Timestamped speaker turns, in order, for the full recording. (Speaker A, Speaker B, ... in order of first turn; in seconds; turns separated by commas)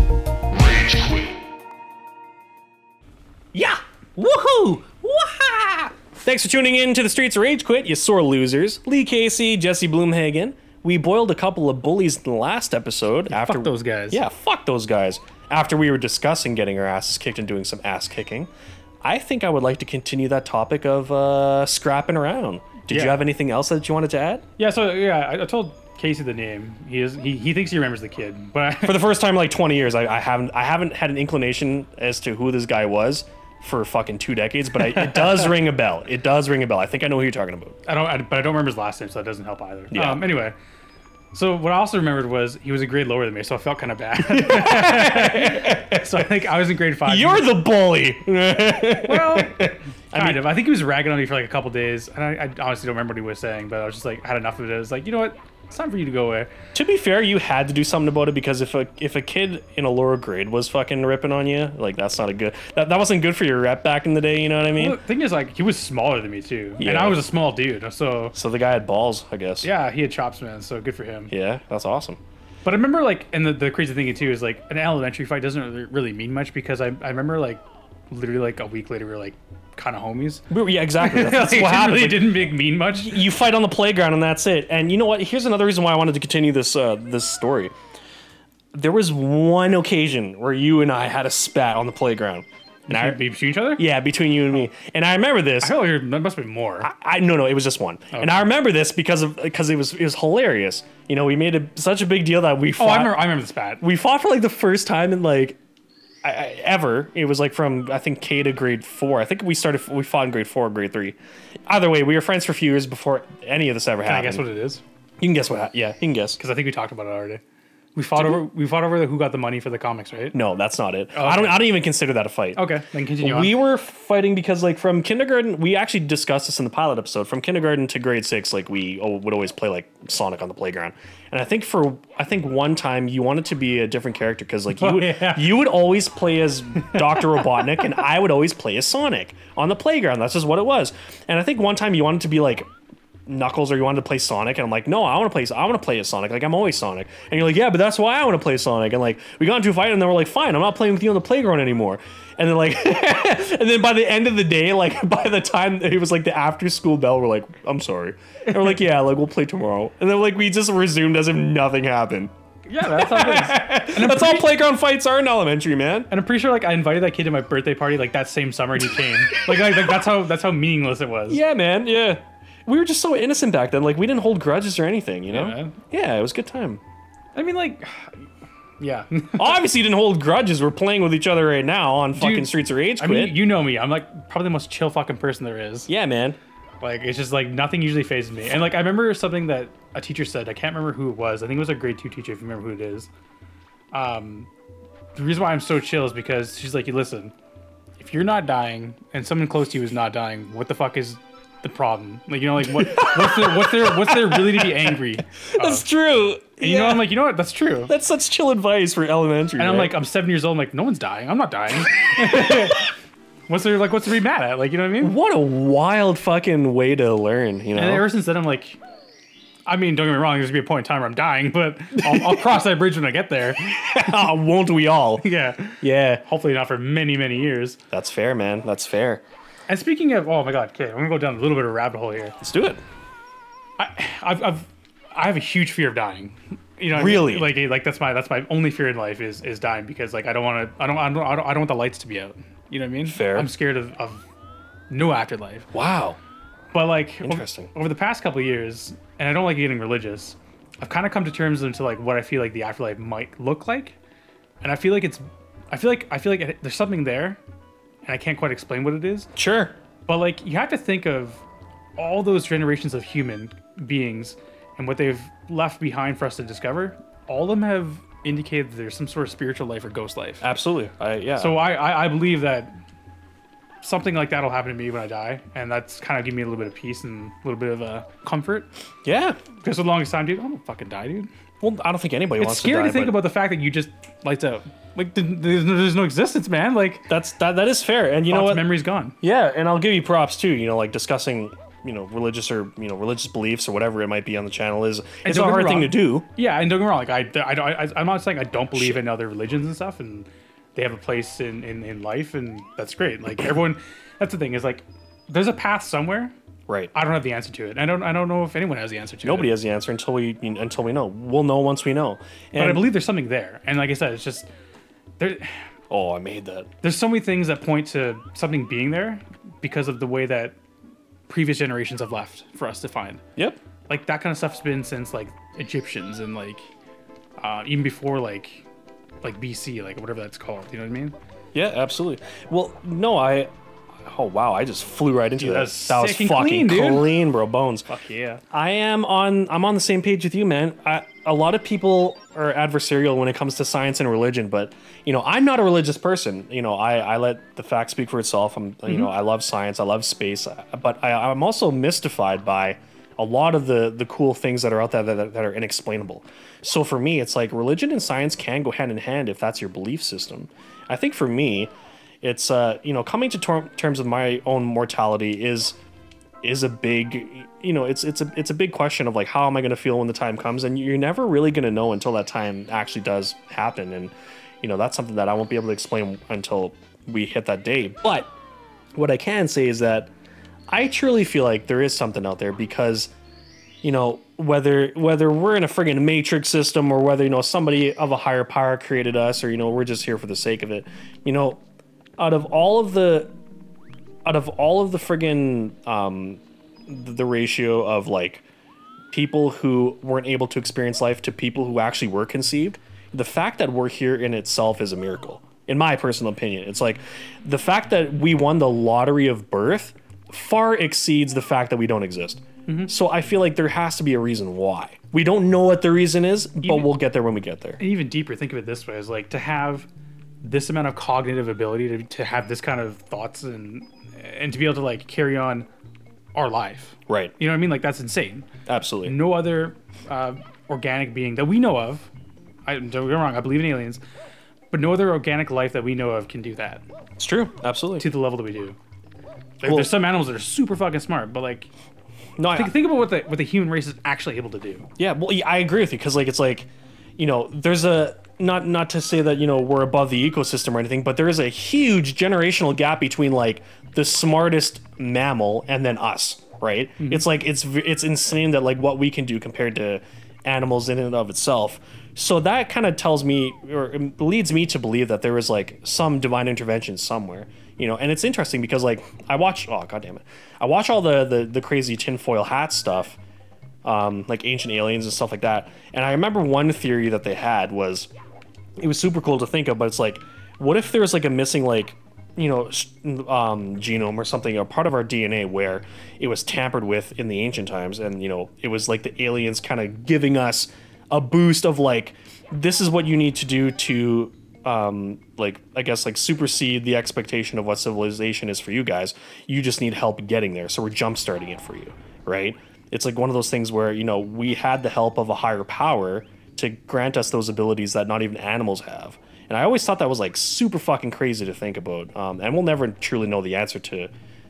Speaker A: 0.6-1.3, Speaker A: 3.5-18.5, Speaker B: 13.3-14.2, Speaker A: 19.0-24.4, Speaker B: 22.9-23.2, Speaker B: 24.6-29.0, Speaker A: 28.8-37.8, Speaker B: 37.9-40.6, Speaker A: 39.9-40.2, Speaker B: 41.3-47.5, Speaker A: 44.2-46.2, Speaker A: 47.0-50.5, Speaker B: 49.0-56.5, Speaker A: 56.7-65.0, Speaker B: 64.8-68.3, Speaker A: 66.8-67.2, Speaker A: 68.3-69.7, Speaker B: 69.6-71.3, Speaker A: 71.3-72.2, Speaker B: 72.7-80.4, Speaker A: 80.5-87.7, Speaker B: 81.0-83.2, Speaker A: 88.7-93.2, Speaker B: 92.9-93.8, Speaker A: 93.8-95.8, Speaker B: 95.6-96.9, Speaker A: 96.8-103.2, Speaker B: 98.1-98.4, Speaker B: 102.8-103.8, Speaker A: 103.8-105.6, Speaker A: 106.2-114.5, Speaker B: 114.0-114.8, Speaker A: 115.2-116.4, Speaker B: 116.4-117.4, Speaker B: 118.0-120.3, Speaker A: 118.2-118.4, Speaker A: 120.3-122.6, Speaker B: 121.1-121.7, Speaker B: 122.5-123.6, Speaker A: 123.2-142.7, Speaker B: 134.7-135.5, Speaker B: 136.8-137.8, Speaker A: 143.3-166.1, Speaker B: 162.7-164.5, Speaker B: 166.1-171.4, Speaker A: 169.3-169.9, Speaker A: 171.3-176.8, Speaker B: 175.3-175.8, Speaker B: 177.3-179.7, Speaker A: 179.4-183.4, Speaker B: 182.2-185.9, Speaker A: 185.9-186.4, Speaker B: 186.8-193.1, Speaker B: 193.9-194.5, Speaker B: 195.2-197.3, Speaker B: 198.0-205.8, Speaker A: 202.6-207.1, Speaker B: 206.6-207.9, Speaker A: 207.9-210.0, Speaker B: 209.6-212.9, Speaker B: 213.5-215.2, Speaker A: 215.0-218.1, Speaker B: 217.8-218.8, Speaker B: 219.7-224.3, Speaker A: 222.0-222.6, Speaker A: 223.9-225.2, Speaker B: 225.2-227.8, Speaker A: 225.8-226.2, Speaker A: 227.9-229.2, Speaker B: 229.7-232.4, Speaker A: 232.4-232.8, Speaker B: 233.8-244.3, Speaker A: 236.9-237.6, Speaker A: 243.1-243.5, Speaker B: 244.9-245.7, Speaker A: 245.7-246.2, Speaker B: 246.7-254.0, Speaker A: 247.2-247.7, Speaker B: 254.6-257.4, Speaker B: 258.1-259.3, Speaker A: 259.4-259.8, Speaker B: 260.1-261.4, Speaker B: 262.0-270.5, Speaker A: 270.4-271.6, Speaker B: 271.4-272.7, Speaker B: 273.8-278.7, Speaker A: 279.1-279.4, Speaker B: 279.6-281.3, Speaker A: 281.6-283.2, Speaker B: 282.4-287.1, Speaker A: 287.1-288.7, Speaker B: 288.3-289.2, Speaker A: 289.2-296.3, Speaker B: 295.2-306.3, Speaker A: 298.7-299.0, Speaker B: 306.9-309.5, Speaker A: 309.2-312.8, Speaker B: 312.6-314.5, Speaker B: 315.2-315.7, Speaker A: 315.9-316.7, Speaker B: 316.8-320.6, Speaker B: 321.3-323.2, Speaker B: 323.9-326.7, Speaker B: 327.4-328.7, Speaker B: 329.2-331.1, Speaker A: 331.5-333.5, Speaker A: 334.0-337.9, Speaker B: 335.4-337.1, Speaker B: 337.9-338.4, Speaker A: 338.5-365.8, Speaker A: 366.4-378.3, Speaker A: 379.0-380.1, Speaker A: 380.7-383.1, Speaker A: 383.8-391.6, Speaker A: 392.2-393.3, Speaker A: 394.3-398.5, Speaker A: 399.1-417.8, Speaker B: 412.7-412.9, Speaker B: 416.6-416.9, Speaker B: 417.8-419.9, Speaker B: 420.4-425.7, Speaker B: 426.4-428.5, Speaker A: 427.1-427.3, Speaker A: 428.7-429.2, Speaker B: 429.1-432.1, Speaker B: 432.7-434.0, Speaker B: 434.7-436.8, Speaker A: 437.2-438.1, Speaker B: 438.0-438.8, Speaker B: 439.6-441.7, Speaker A: 439.6-439.9, Speaker A: 442.4-442.8, Speaker B: 442.5-444.9, Speaker A: 445.0-473.2, Speaker B: 457.0-457.3, Speaker A: 473.9-478.1, Speaker A: 478.8-514.1